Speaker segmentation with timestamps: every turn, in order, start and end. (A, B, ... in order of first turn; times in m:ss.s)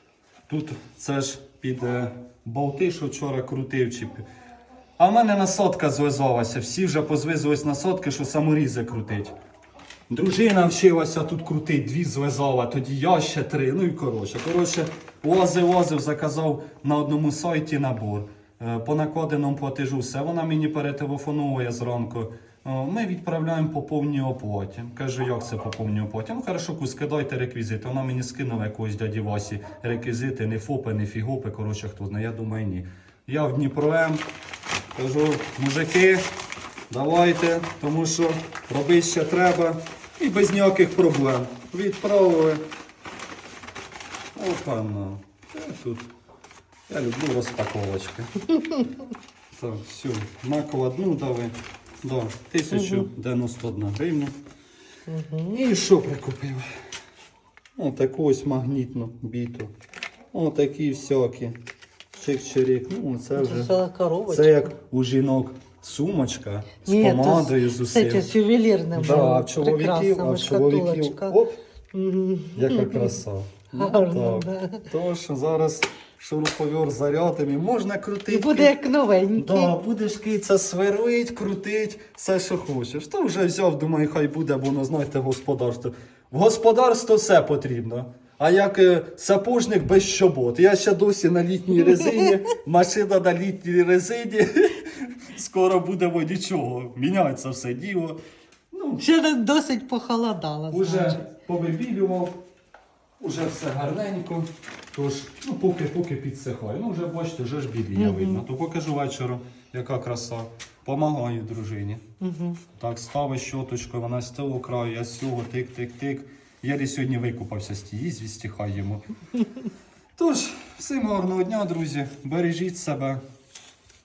0:00.5-0:04.2 A
0:05.0-0:09.3 A
0:10.1-0:34.2 A
0:34.9-0:36.2 A
0:36.9-0:42.6 A
0:44.4-0:46.1 A
0:46.9-0:48.5 A
0:49.5-0:54.3 A
0:52.7-0:53.1 B
0:55.1-0:55.6 B
0:55.5-0:56.7 A
0:57.8-0:59.7 A
1:00.3-1:01.6 A
1:02.2-1:03.8 A
1:03.4-1:04.7 B
1:04.3-1:08.3 A
1:06.9-1:11.4 B
1:09.0-1:11.6 A
1:11.9-1:13.2 B
1:12.6-1:18.7 A
1:13.7-1:14.9 B
1:18.3-1:19.8 B
1:19.4-1:38.2 A
1:31.8-1:32.2 B
1:38.7-1:39.0 A
1:39.0-1:41.2 B
1:40.7-1:42.4 A
1:43.2-1:52.0 A
1:48.0-1:48.4 B
1:52.2-1:52.6 B
1:52.7-1:59.0 A
2:00.2-2:03.2 A